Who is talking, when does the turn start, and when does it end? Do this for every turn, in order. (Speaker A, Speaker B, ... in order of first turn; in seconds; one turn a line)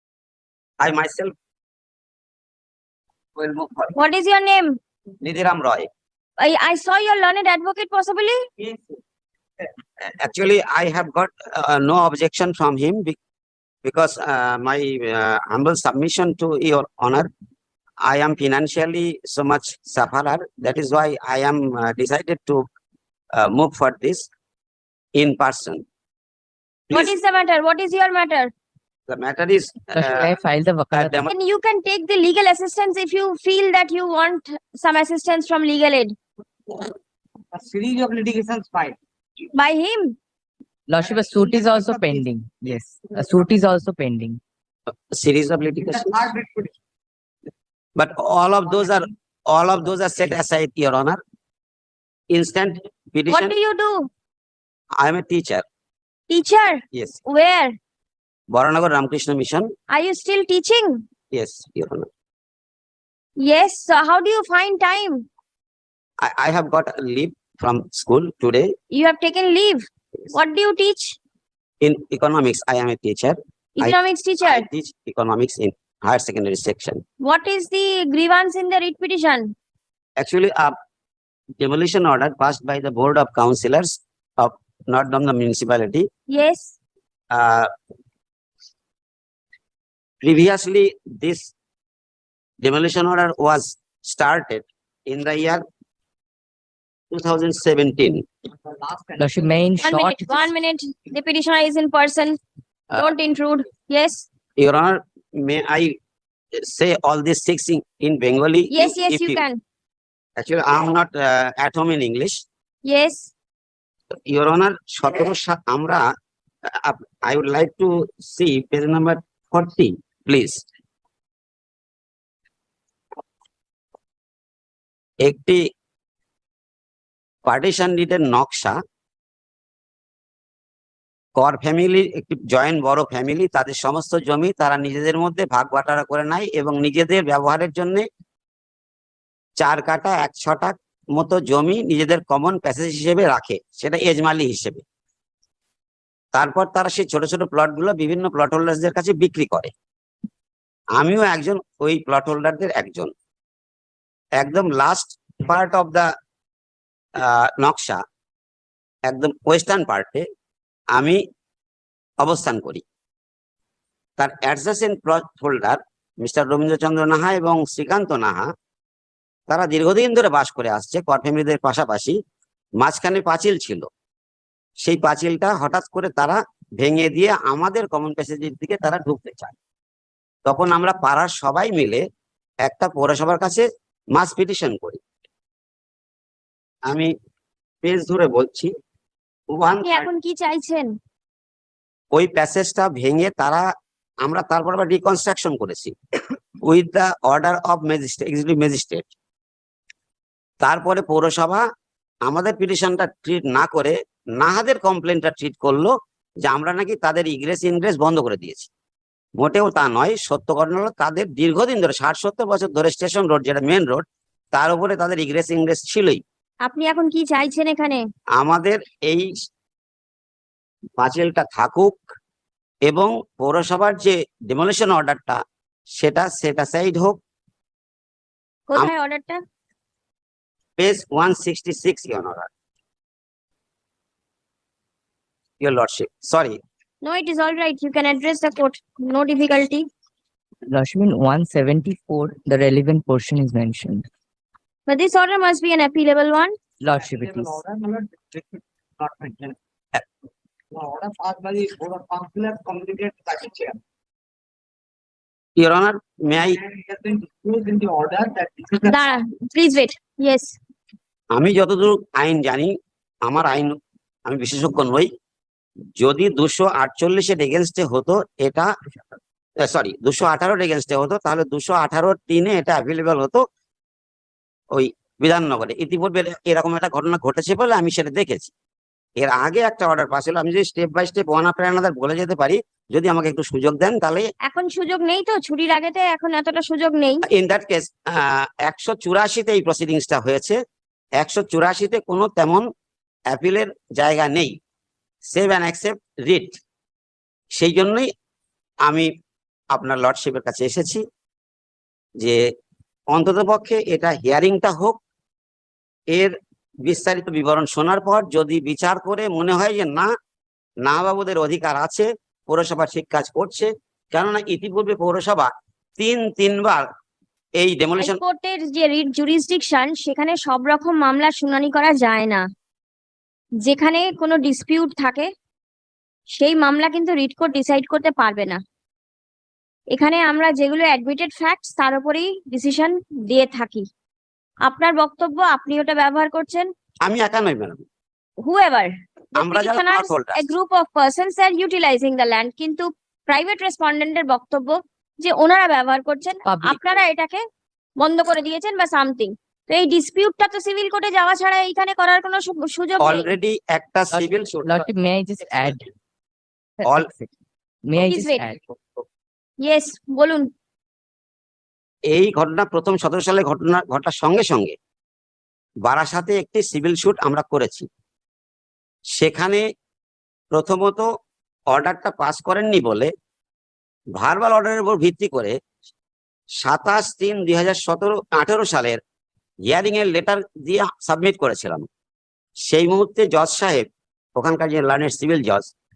Speaker A: 0.8-1.3
Speaker A: 3.4-4.0
Speaker B: 4.0-4.8
Speaker A: 5.2-5.9
Speaker B: 6.4-8.5
Speaker A: 10.0-13.2
Speaker A: 13.8-17.3
Speaker A: 18.0-22.6
Speaker A: 23.4-24.3
Speaker A: 25.1-25.8
Speaker B: 26.9-28.5
Speaker A: 29.1-30.3
Speaker C: 29.9-31.3
Speaker A: 30.9-31.3
Speaker B: 31.3-36.1
Speaker D: 37.5-39.0
Speaker B: 39.5-40.2
Speaker C: 40.9-44.4
Speaker D: 41.0-42.2
Speaker A: 45.1-46.3
Speaker D: 45.8-46.7
Speaker A: 48.0-51.2
Speaker A: 52.3-53.6
Speaker B: 53.3-54.1
Speaker A: 55.0-55.6
Speaker B: 56.3-57.8
Speaker A: 56.9-57.2
Speaker A: 58.5-59.7
Speaker B: 59.9-61.0
Speaker A: 61.3-62.1
Speaker B: 63.4-65.2
Speaker A: 66.2-68.7
Speaker B: 68.9-71.2
Speaker A: 71.8-77.0
Speaker B: 73.8-74.7
Speaker B: 77.2-79.5
Speaker A: 80.2-80.8
Speaker A: 81.6-86.1
Speaker B: 86.3-86.8
Speaker A: 87.3-87.7
Speaker A: 90.2-91.5
Speaker A: 92.6-95.6
Speaker A: 97.1-98.2
Speaker D: 98.7-99.5
Speaker C: 99.2-100.5
Speaker B: 99.8-102.4
Speaker B: 102.9-104.3
Speaker A: 104.6-106.0
Speaker A: 106.6-109.5
Speaker B: 108.7-109.6
Speaker A: 110.4-112.4
Speaker B: 112.8-113.3
Speaker A: 114.3-116.0
Speaker A: 116.7-120.6
Speaker A: 125.2-125.6
Speaker A: 127.5-128.8
Speaker A: 131.4-138.1
Speaker A: 139.6-144.8
Speaker A: 146.3-149.7
Speaker A: 150.9-153.1
Speaker A: 154.4-156.1
Speaker A: 157.2-158.0
Speaker A: 159.1-160.2
Speaker A: 160.9-161.2
Speaker A: 162.2-162.8
Speaker A: 164.2-168.5
Speaker A: 169.5-172.2
Speaker A: 172.8-173.9
Speaker A: 174.8-179.5
Speaker A: 180.4-182.0
Speaker A: 182.6-185.0
Speaker A: 187.8-188.7
Speaker A: 189.5-190.1
Speaker B: 189.8-190.9
Speaker A: 192.1-193.7
Speaker A: 194.2-195.9
Speaker A: 196.6-199.1
Speaker A: 200.6-201.6
Speaker A: 202.2-208.7
Speaker A: 209.4-216.2
Speaker B: 216.6-218.0
Speaker A: 218.4-219.3
Speaker A: 221.0-222.0
Speaker A: 222.8-225.4
Speaker A: 225.9-227.2
Speaker B: 228.7-229.4
Speaker A: 230.8-232.5
Speaker A: 235.6-236.6
Speaker B: 237.0-239.9
Speaker C: 240.7-244.1
Speaker B: 244.9-246.5
Speaker C: 246.8-247.6
Speaker D: 246.9-249.6
Speaker D: 250.7-253.8
Speaker A: 255.6-256.6
Speaker D: 256.6-259.1
Speaker B: 258.8-260.6
Speaker A: 261.3-262.7
Speaker A: 263.2-265.1
Speaker A: 266.0-268.7
Speaker A: 269.6-273.4
Speaker A: 274.7-278.5
Speaker A: 279.2-284.3
Speaker B: 284.4-287.2
Speaker A: 287.3-290.6
Speaker A: 291.2-292.6
Speaker A: 293.3-294.6
Speaker A: 295.3-296.6
Speaker A: 297.5-298.1
Speaker A: 299.7-301.0
Speaker A: 303.1-305.0
Speaker A: 306.1-310.1
Speaker A: 310.8-316.8
Speaker A: 317.6-318.2
Speaker B: 318.0-322.4
Speaker B: 323.6-325.3
Speaker B: 326.3-328.6
Speaker B: 329.9-333.9
Speaker B: 334.6-336.7
Speaker A: 337.0-337.8
Speaker B: 338.4-347.4
Speaker A: 339.4-340.5
Speaker C: 346.4-346.8
Speaker B: 348.0-353.3
Speaker A: 353.0-354.9
Speaker C: 354.1-355.9
Speaker C: 356.8-357.3
Speaker C: 357.9-358.8
Speaker B: 358.0-358.5
Speaker B: 359.6-360.5
Speaker A: 362.1-364.8
Speaker A: 365.8-367.9
Speaker A: 369.1-369.6
Speaker A: 370.5-371.1
Speaker A: 371.7-373.1
Speaker A: 374.2-375.6
Speaker A: 376.6-379.0
Speaker A: 379.7-381.9
Speaker A: 382.7-385.7